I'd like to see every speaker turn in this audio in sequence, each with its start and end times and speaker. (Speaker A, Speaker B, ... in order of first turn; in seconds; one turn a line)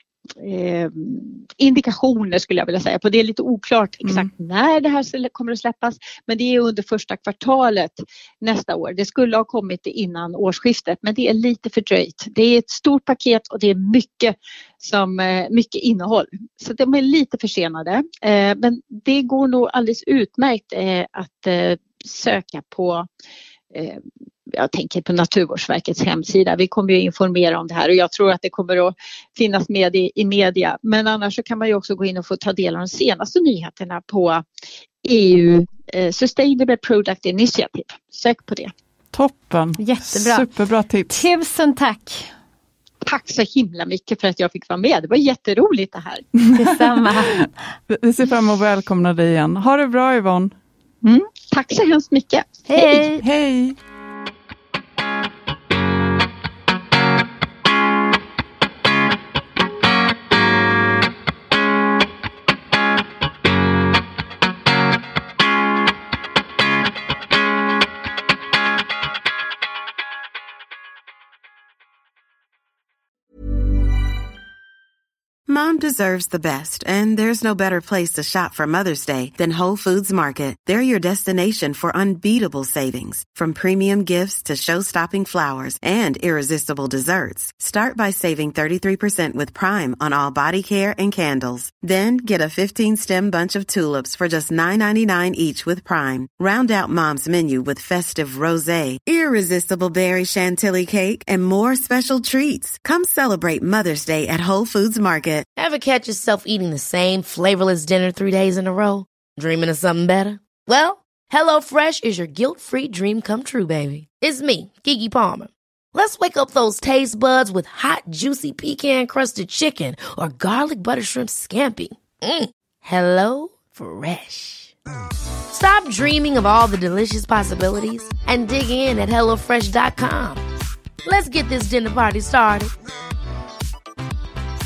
Speaker A: 0.4-23.1
Speaker B: 4.0-4.3
Speaker A: 23.7-34.4
Speaker A: 35.0-38.7
Speaker B: 39.1-41.2
Speaker C: 39.8-40.5
Speaker C: 41.1-42.3
Speaker A: 43.0-46.2
Speaker B: 46.4-50.5
Speaker C: 46.5-47.4
Speaker A: 51.0-53.1
Speaker C: 52.7-53.2
Speaker B: 53.2-53.8
Speaker D: 75.5-105.5
Speaker E: 105.5-124.8
Speaker E: 125.5-130.4
Speaker E: 131.0-132.7